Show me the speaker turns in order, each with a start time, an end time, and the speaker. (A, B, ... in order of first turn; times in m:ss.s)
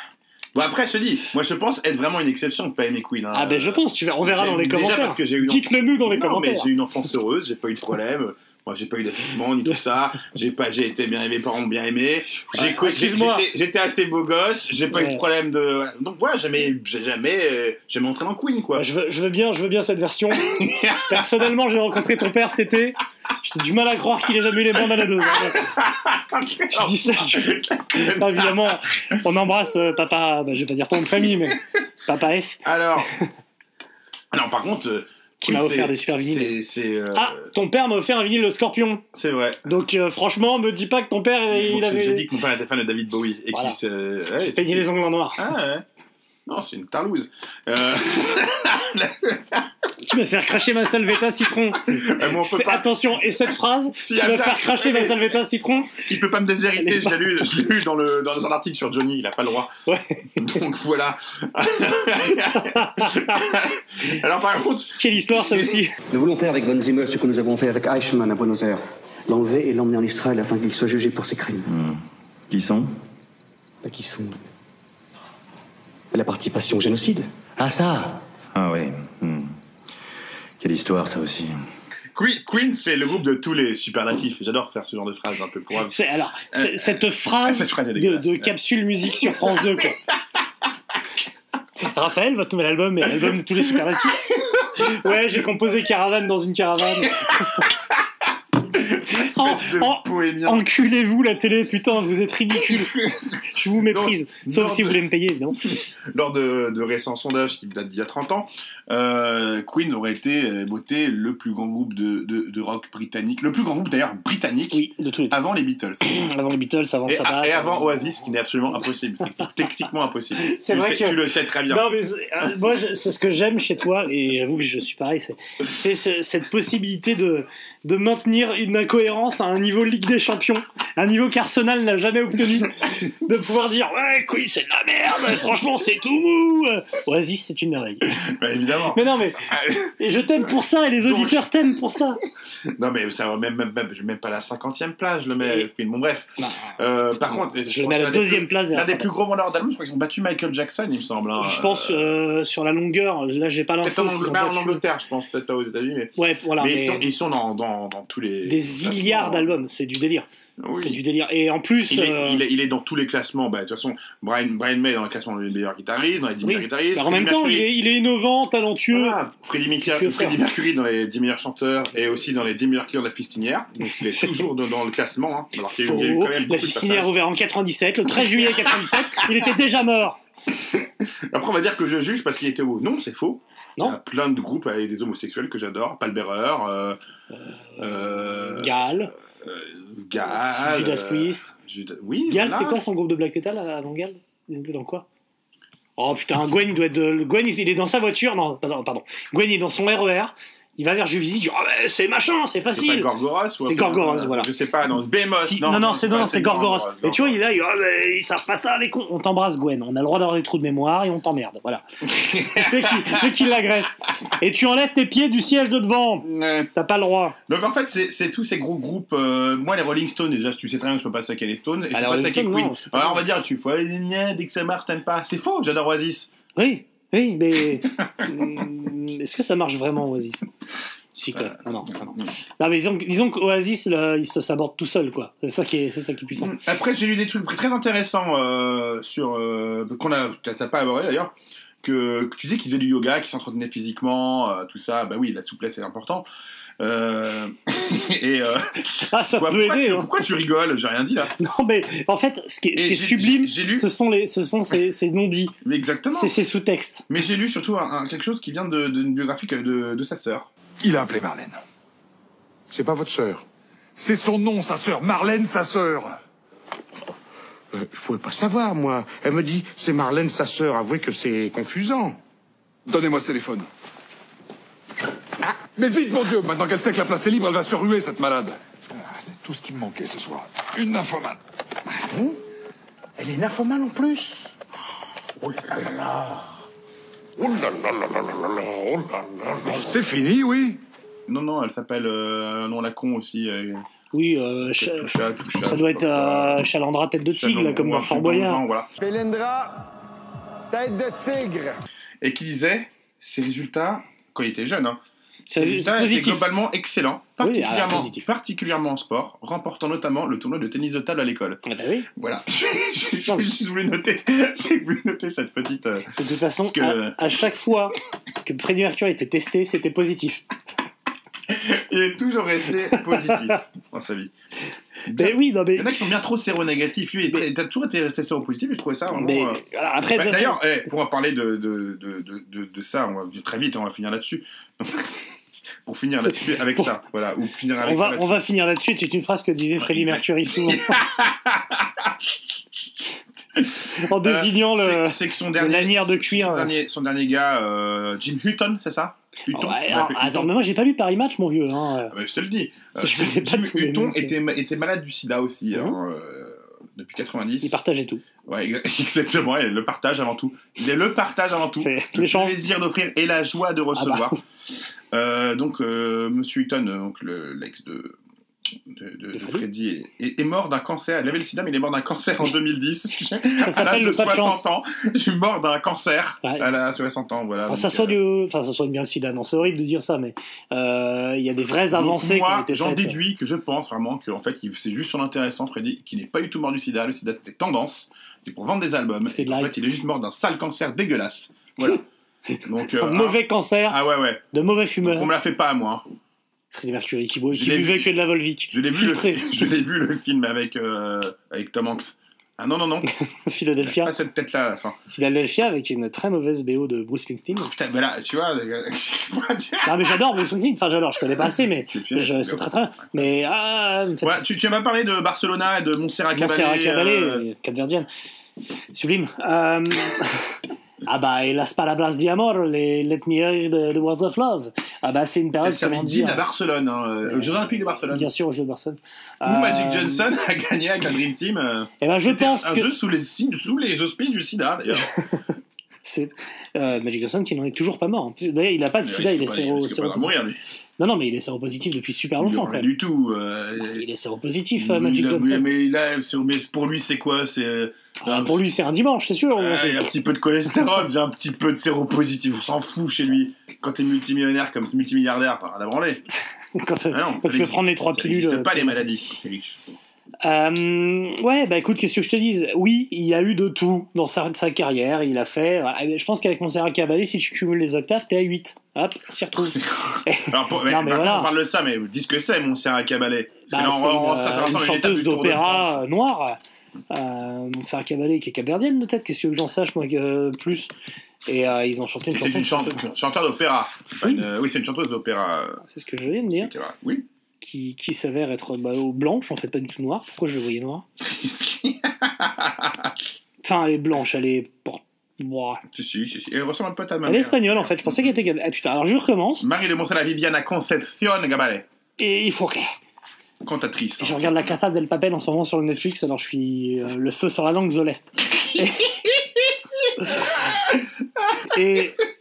0:00.6-0:18.8 A
0:03.3-0:06.7 B
0:12.5-0:13.5 B
0:14.9-0:15.2 B
0:18.7-0:25.7 B
0:20.5-0:21.2 A
0:25.5-0:28.7 A
0:26.7-0:32.6 B
0:32.6-0:33.1 A
0:34.3-0:37.5 A
0:35.4-0:36.6 B
0:37.1-0:39.0 B
0:39.2-0:39.6 A
0:39.6-0:42.3 B
0:41.5-0:45.8 A
0:43.5-0:43.8 B
0:44.4-0:45.5 B
0:46.5-0:49.7 A
0:50.0-0:56.1 B
0:51.8-0:52.9 A
0:54.0-0:55.4 A
0:55.9-0:59.7 A
0:56.7-0:57.4 B
0:59.9-1:00.6 B
1:00.4-1:05.8 A
1:02.5-1:03.4 B
1:05.0-1:05.9 B
1:06.1-1:11.9 C
1:12.5-1:12.9 D
1:13.8-1:14.4 C
1:16.1-1:18.2 C
1:18.6-1:19.5 D
1:20.6-1:21.5 D
1:22.1-1:25.9 A
1:25.8-1:30.0 B
1:26.5-1:28.6 A
1:29.2-1:29.5 A
1:31.8-1:37.6 B
1:38.7-1:40.7 A
1:39.1-1:45.6 B
1:43.0-1:45.0 A
1:46.1-1:56.2 A
1:54.7-1:55.4 B
1:56.0-1:58.0 B
1:57.1-2:01.9 A
2:00.4-2:18.1 B
2:18.2-2:19.9 A
2:18.9-2:19.4 B
2:20.0-2:22.2 B
2:21.0-2:21.4 A
2:22.8-2:32.2 A
2:26.4-2:29.2 B
2:31.4-2:34.8 B
2:33.8-2:39.5 A
2:36.2-2:37.1 B
2:38.5-2:42.4 B
2:40.6-2:41.0 A
2:41.9-2:47.7 A
2:46.4-2:49.2 B
2:48.9-2:57.1 A
2:49.8-2:50.4 B
2:54.1-2:54.4 B
2:55.7-3:00.2 B
3:00.6-3:07.0 A
3:07.3-3:09.1 B
3:07.8-3:08.8 A
3:09.4-3:12.8 A
3:10.2-3:11.5 B
3:12.3-3:15.1 B
3:16.0-3:24.5 B
3:22.7-3:27.4 A
3:25.4-3:37.4 B
3:32.1-3:33.3 A
3:36.2-3:36.7 A
3:37.5-3:46.3 A
3:41.9-3:43.2 B
3:46.6-3:50.4 B
3:51.2-3:56.6 B
3:51.3-3:52.3 A
3:56.4-4:06.3 A
4:06.8-4:11.3 A
4:09.0-4:10.1 B
4:11.4-4:15.6 B
4:12.8-4:13.9 A
4:15.6-4:16.3 A
4:16.1-4:17.1 B
4:17.1-4:20.5 A
4:20.8-4:21.6 E
4:22.7-4:23.4 E
4:24.0-4:26.1 E
4:27.7-4:32.2 E
4:32.9-4:33.7 E
4:35.4-4:41.4 E
4:42.1-4:42.4 E
4:43.2-4:44.5 E
4:45.4-4:46.4 E
4:47.4-4:50.8 E
4:51.3-4:53.8 A
4:54.1-4:58.6 B
4:54.8-4:56.7 A
4:57.3-4:58.9 A
4:59.0-4:59.7 E
5:00.7-5:01.7 E
5:02.2-5:11.6 A
5:05.5-5:06.5 B
5:07.4-5:08.2 B
5:11.6-5:12.1 B
5:12.2-5:17.2 A
5:16.2-5:20.4 B
5:21.5-5:24.3 A
5:22.9-5:23.6 B
5:25.1-5:29.6 A
5:25.1-5:26.0 B
5:29.1-5:30.6 B
5:30.1-5:35.2 A
5:35.9-5:38.4 A
5:36.2-5:36.9 B
5:37.8-5:41.0 B
5:39.8-5:42.1 A
5:43.6-5:50.5 A
5:44.0-5:46.7 B
5:49.5-5:52.1 B
5:52.1-5:57.8 A
5:53.0-5:54.3 B
5:55.7-5:56.0 B
5:57.6-5:58.2 B
5:58.5-6:04.4 A
6:01.8-6:02.6 B
6:04.0-6:04.4 B
6:05.1-6:08.2 A
6:08.9-6:18.2 A
6:09.3-6:09.7 B
6:13.6-6:14.6 B
6:17.7-6:23.2 B
6:21.9-6:32.0 A
6:29.2-6:29.8 B
6:32.6-6:34.0 B
6:32.6-6:34.4 A
6:34.5-6:35.3 B
6:35.0-6:36.0 A
6:36.7-6:39.5 B
6:37.5-6:43.1 A
6:43.3-6:44.1 B
6:43.8-6:45.0 A
6:45.1-6:47.7 B
6:47.6-6:50.1 A
6:49.8-6:54.4 B
6:51.9-6:53.3 A
6:54.2-6:57.4 A
6:56.3-6:58.1 B
6:58.9-7:00.6 B
7:01.1-7:06.4 B
7:05.6-7:08.3 A
7:07.2-7:10.3 B
7:09.4-7:15.1 A
7:12.0-7:12.9 B
7:15.0-7:15.4 B
7:16.0-7:20.4 B
7:19.0-7:20.6 A
7:21.0-7:22.9 B
7:22.4-7:24.0 A
7:23.8-7:25.7 B
7:24.8-7:28.6 A
7:28.2-7:30.1 B
7:29.6-7:36.2 A
7:36.8-7:39.0 B
7:37.1-7:39.8 A
7:40.4-7:51.5 B
7:49.8-7:56.0 A
7:53.7-7:56.6 B
7:57.1-8:00.9 B
8:01.5-8:03.0 B
8:02.3-8:05.8 A
8:04.2-8:04.5 B
8:05.8-8:06.7 B
8:06.5-8:07.3 A
8:07.6-8:11.0 B
8:11.2-8:13.1 A
8:13.6-8:15.8 B
8:15.9-8:18.3 A
8:17.2-8:19.7 B
8:19.6-8:21.9 A
8:22.2-8:23.0 B
8:23.6-8:24.8 A
8:24.2-8:29.1 B
8:30.2-8:30.5 B
8:31.6-8:32.2 B